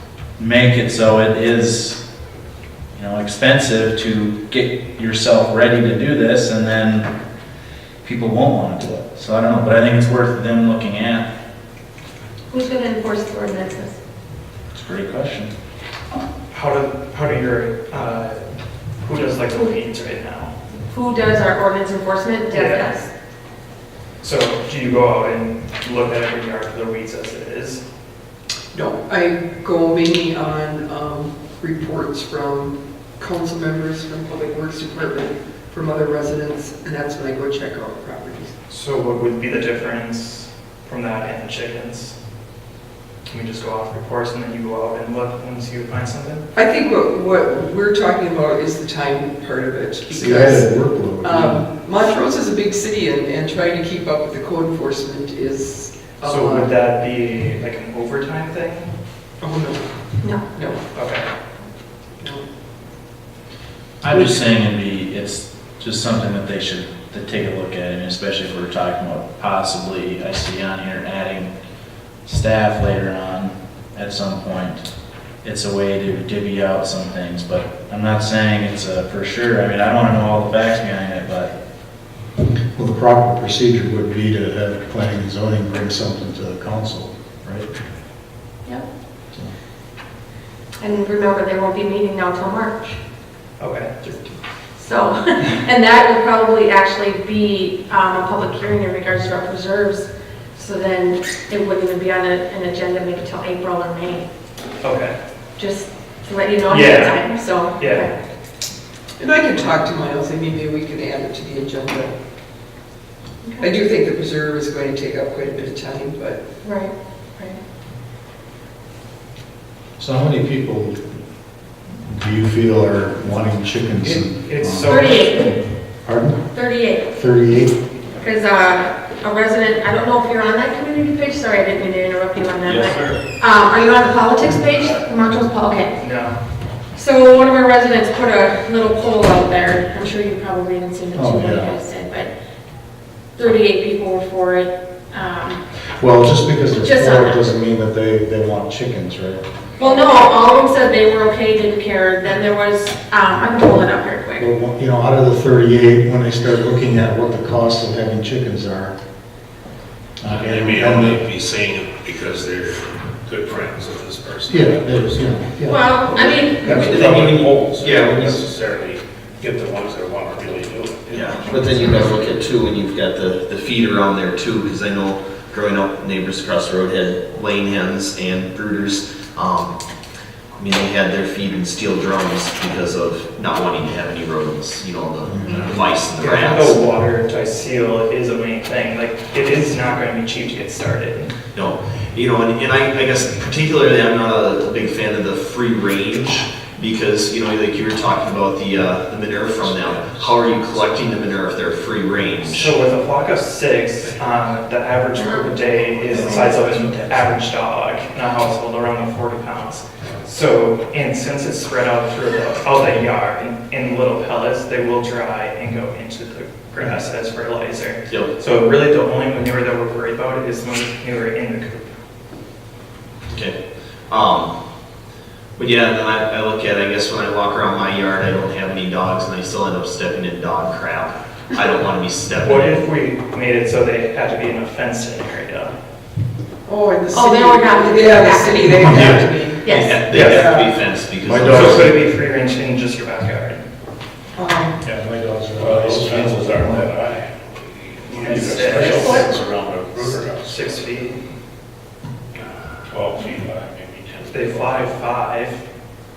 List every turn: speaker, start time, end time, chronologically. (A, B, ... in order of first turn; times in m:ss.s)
0:00.4-0:02.0 A
0:02.9-0:07.1 A
0:08.0-0:11.3 A
0:12.5-0:14.0 B
0:14.7-0:15.5 A
0:16.5-0:18.4 C
0:19.0-0:20.5 C
0:20.9-0:23.1 B
0:22.5-0:22.9 C
0:24.2-0:27.8 C
0:28.7-0:38.6 D
0:38.7-0:42.2 C
0:43.3-0:46.4 C
0:46.6-0:50.7 D
0:50.1-0:51.6 E
0:51.2-0:56.7 D
0:56.2-0:58.9 C
0:59.4-0:59.9 D
1:00.5-1:00.8 D
1:00.9-1:01.3 C
1:04.0-1:11.5 A
1:12.2-1:14.9 A
1:15.4-1:21.5 A
1:22.8-1:27.7 E
1:30.8-1:33.0 B
1:33.6-1:34.3 C
1:34.8-1:44.3 B
1:44.8-1:45.2 C
1:45.6-1:48.1 B
1:46.7-1:47.3 C
1:47.8-1:48.1 C
1:49.2-1:52.1 D
1:53.4-1:53.7 B
1:53.6-1:56.4 D
1:56.6-1:57.6 B
2:00.0-2:01.0 E
2:02.0-2:06.4 E
2:04.0-2:05.3 C
2:04.8-2:05.6 B
2:06.5-2:07.1 B
2:07.1-2:07.8 E
2:08.2-2:16.0 B
2:12.7-2:13.1 A
2:16.0-2:16.4 C
2:16.9-2:22.3 B
2:21.1-2:21.8 E
2:23.4-2:25.6 B
2:26.0-2:29.4 E
2:26.8-2:27.5 B
2:29.8-2:34.5 B
2:34.4-2:39.0 E
2:40.2-2:41.3 E
2:40.2-2:45.1 F
2:44.5-2:46.0 E
2:45.6-2:46.7 B
2:46.1-2:52.0 F
2:46.6-2:47.3 E
2:46.7-2:48.5 G
2:51.1-2:59.8 G
3:00.6-3:06.8 G
3:05.2-3:05.8 E
3:06.2-3:11.3 C
3:11.5-3:22.7 G
3:19.6-3:20.0 F
3:22.5-3:41.9 C
3:26.1-3:27.3 A
3:43.3-3:43.6 G
3:44.1-3:44.5 G
3:45.6-3:52.8 G
3:52.4-3:55.7 C
3:56.7-4:00.7 D
3:57.1-3:58.9 B
3:58.8-3:59.2 E
3:59.0-4:01.9 G
3:59.6-4:00.1 B
4:00.1-4:00.5 C
4:01.2-4:02.0 E
4:01.5-4:03.7 C
4:04.4-4:04.8 D
4:04.8-4:06.9 E
4:05.5-4:11.0 F
4:08.0-4:09.2 C
4:10.0-4:11.2 C
4:12.3-4:15.0 F
4:14.3-4:15.6 C